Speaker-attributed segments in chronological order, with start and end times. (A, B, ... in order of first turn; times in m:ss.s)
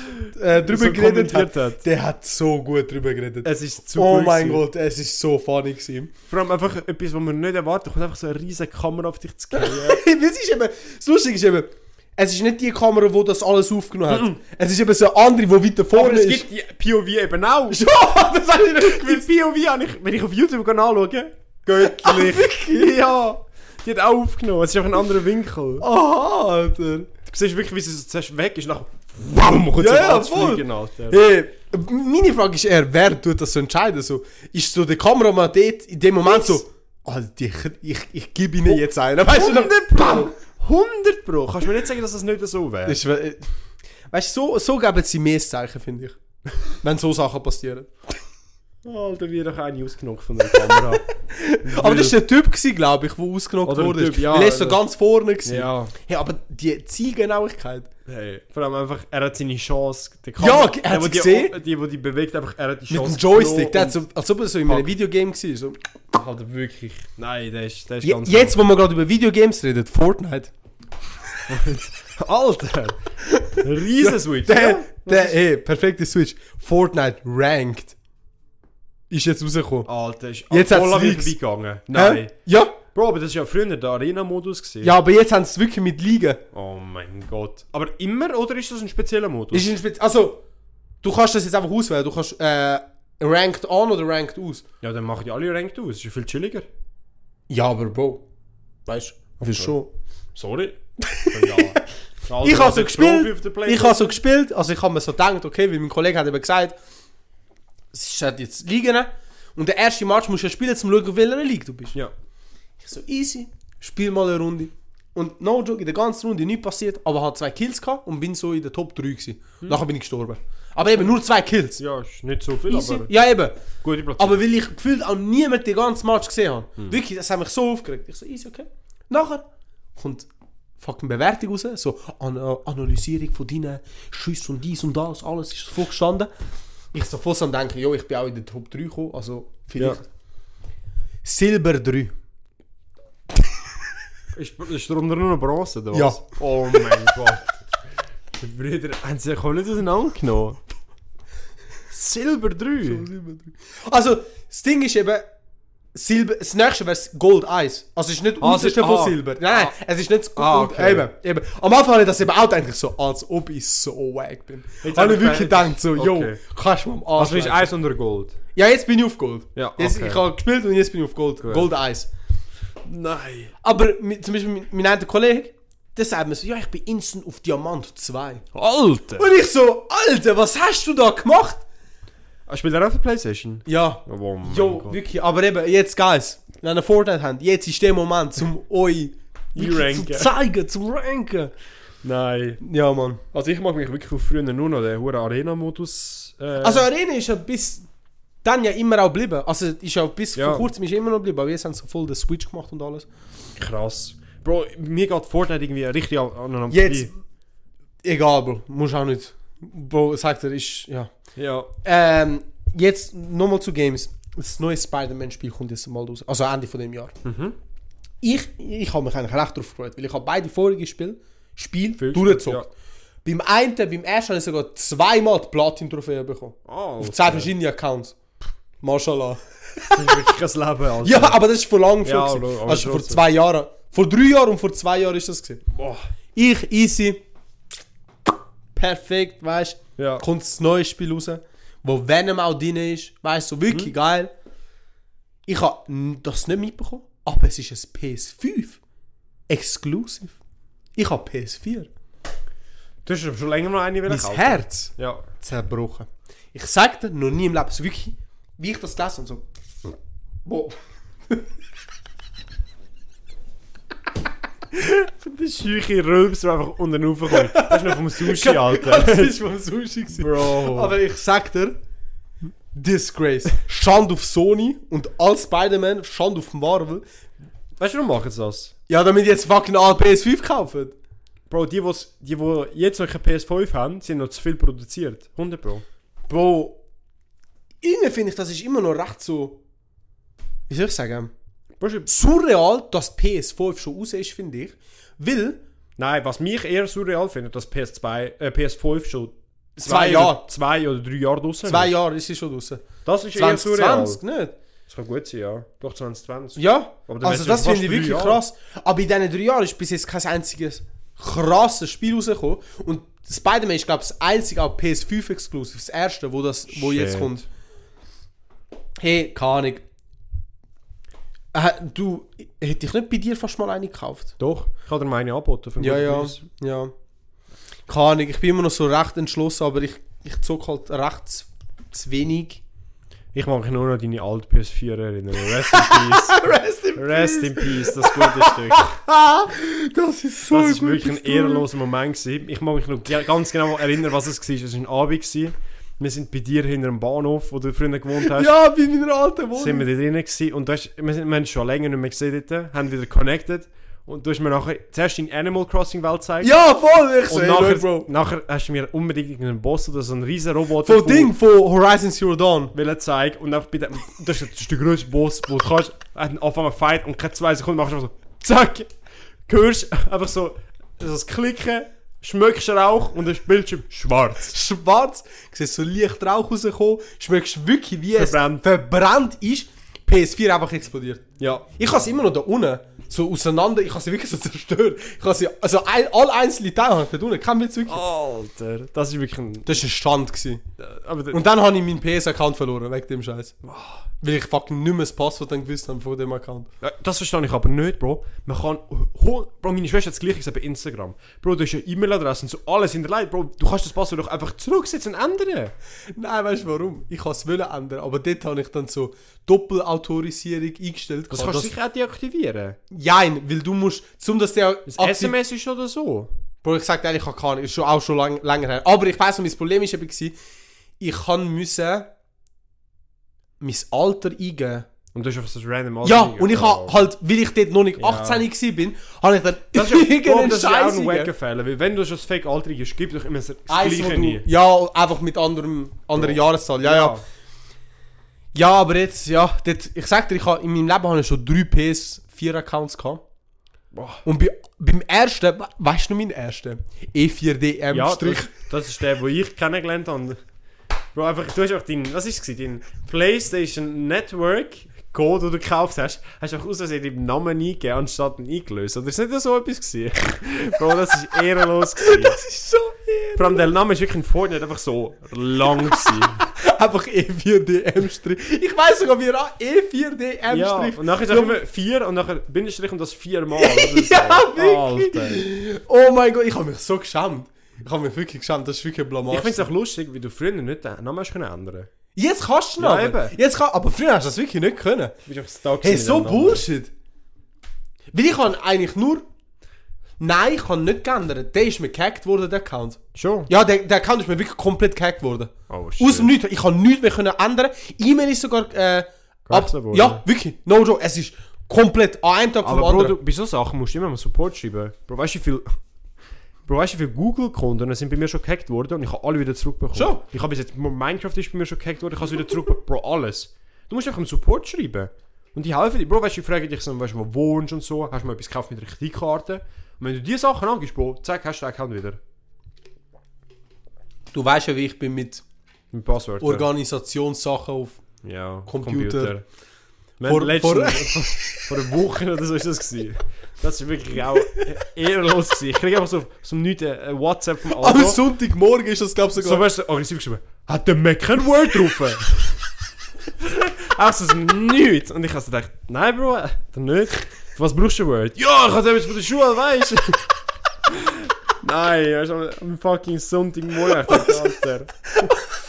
0:00.2-0:06.1 A
0:00.6-0:01.8 B
0:03.4-0:04.6 B
0:06.3-0:10.0 B
0:09.5-0:16.4 A
0:14.1-0:14.4 B
0:15.9-0:17.8 B
0:17.7-0:19.2 A
0:18.6-0:25.8 B
0:21.7-0:23.2 A
0:25.8-0:27.1 A
0:27.2-0:31.2 B
0:29.8-0:40.3 A
0:36.3-0:36.6 B
0:38.7-0:43.0 B
0:42.8-0:43.5 A
0:44.1-0:46.2 A
0:46.7-0:47.9 A
0:48.8-0:51.0 B
0:51.2-0:57.9 A
0:51.6-0:52.2 B
0:53.6-0:54.8 B
0:55.4-0:55.9 B
0:58.0-1:04.0 B
1:00.4-1:01.5 A
1:02.9-1:05.8 A
1:06.1-1:08.6 B
1:08.0-1:10.5 A
1:11.5-1:13.0 B
1:13.2-1:18.0 A
1:13.6-1:15.4 B
1:19.1-1:19.9 A
1:19.8-1:24.9 B
1:20.5-1:21.4 A
1:21.9-1:22.8 A
1:24.8-1:26.4 A
1:26.5-1:29.7 B
1:29.5-1:30.4 A
1:31.0-1:34.6 A
1:34.8-1:36.7 B
1:37.5-1:38.2 A
1:38.9-1:39.9 A
1:40.3-1:44.1 B
1:41.0-1:41.9 A
1:42.4-1:46.8 A
1:47.9-1:52.0 A
1:52.8-2:01.8 A
2:01.8-2:03.1 B
2:02.7-2:03.6 A
2:03.8-2:04.4 B
2:04.2-2:09.4 A
2:10.0-2:16.3 A
2:16.9-2:20.1 A
2:21.2-2:22.1 A
2:24.3-2:27.5 B
2:25.9-2:26.9 A
2:28.4-2:30.6 B
2:31.9-2:33.0 B
2:32.8-2:35.2 A
2:35.9-2:47.7 A
2:38.4-2:39.7 B
2:40.4-2:41.1 B
2:44.8-2:46.4 B
2:47.2-2:48.4 B
2:48.5-2:52.1 A
2:49.6-2:50.2 B
2:51.4-2:51.7 B
2:52.8-2:53.5 B
2:53.6-2:58.4 A
2:58.5-2:59.3 B
2:59.2-3:01.6 A
3:02.5-3:05.0 B
3:03.6-3:11.5 A
3:09.5-3:10.3 B
3:12.0-3:12.6 B
3:12.6-3:13.2 A
3:13.3-3:16.9 B
3:16.6-3:17.9 A
3:18.4-3:23.1 A
3:20.4-3:20.7 B
3:23.6-3:27.1 B
3:26.7-3:27.1 A
3:28.0-3:31.1 A
3:31.4-3:31.7 B
3:31.8-3:37.1 A
3:37.2-3:37.6 B
3:38.2-3:42.7 A
3:42.0-3:42.7 B
3:43.2-3:48.2 A
3:46.7-3:47.5 B
3:48.8-3:50.3 A
3:49.9-3:51.4 B
3:51.0-3:55.6 A
3:52.0-3:53.2 B
3:55.7-3:56.0 B
3:56.3-3:57.2 A
3:58.7-4:04.3 A
4:00.0-4:00.2 B
4:05.5-4:08.8 A
4:09.5-4:10.4 A
4:11.0-4:11.9 A
4:13.0-4:15.2 B
4:14.1-4:20.8 A
4:24.7-4:29.3 B
4:27.3-4:31.8 A
4:30.1-4:31.0 B
4:32.7-4:37.0 A
4:37.8-4:38.7 B
4:38.9-4:41.0 A
4:41.5-4:45.8 B
4:46.3-4:46.8 A
4:47.8-4:49.6 A
4:50.7-4:51.3 A
4:51.8-4:52.1 B
4:52.1-4:55.6 A
4:56.0-5:01.9 B
4:59.8-5:00.4 A
5:01.6-5:04.5 A
5:03.0-5:04.2 B
5:04.9-5:08.4 B
5:06.6-5:17.5 A
5:16.7-5:17.3 B
5:19.0-5:19.8 A
5:21.5-5:24.3 A
5:24.4-5:26.4 B
5:25.8-5:26.9 A
5:27.9-5:32.6 A
5:33.3-5:38.9 B
5:35.6-5:41.6 A
5:40.5-5:48.5 B
5:48.2-5:49.9 A
5:49.6-5:56.5 B
5:56.4-5:58.1 A
5:57.3-6:01.3 B
6:00.8-6:02.7 A
6:02.7-6:08.9 B
6:09.5-6:14.5 B
6:14.5-6:21.2 A
6:18.1-6:18.6 B
6:21.4-6:21.8 B
6:21.8-6:28.0 A
6:27.9-6:29.8 B
6:29.6-6:30.6 A
6:30.8-6:31.4 B
6:31.3-6:33.5 A
6:33.6-6:34.1 B
6:34.2-6:36.7 A
6:36.8-6:45.7 B
6:46.1-6:51.7 A
6:51.3-6:52.8 B
6:52.9-6:55.3 A
6:54.9-6:56.3 B
6:56.6-7:00.3 A
7:01.0-7:02.1 A
7:03.6-7:04.9 A
7:05.1-7:07.0 B
7:06.0-7:11.3 A
7:08.0-7:08.4 B
7:09.7-7:14.4 B
7:13.7-7:17.2 A
7:16.2-7:17.2 B
7:18.5-7:23.2 A
7:23.9-7:24.2 B
7:24.2-7:28.5 A
7:27.9-7:30.4 B
7:31.1-7:42.4 B
7:41.9-7:43.7 A
7:43.4-7:46.4 B
7:45.8-7:51.6 A
7:50.5-7:55.4 B
7:53.5-7:59.7 A
7:59.3-8:01.9 B
8:02.2-8:05.2 A
8:02.8-8:03.4 B
8:05.2-8:06.6 B
8:05.8-8:06.9 A
8:08.1-8:09.2 A
8:10.2-8:23.1 A
8:13.1-8:13.5 B
8:15.7-8:16.3 B
8:19.5-8:20.2 B
8:22.6-8:25.7 B
8:26.6-8:42.2 B
8:29.9-8:30.2 A
8:44.3-8:45.4 A
8:45.9-8:46.7 B
8:46.4-8:48.0 A
8:48.2-8:49.4 B
8:48.7-8:49.3 A
8:50.2-8:58.2 B
8:50.2-8:51.7 A
8:57.7-8:59.6 A
8:59.4-9:02.6 B
9:03.4-9:10.3 B
9:10.8-9:15.3 B
9:14.1-9:14.3 A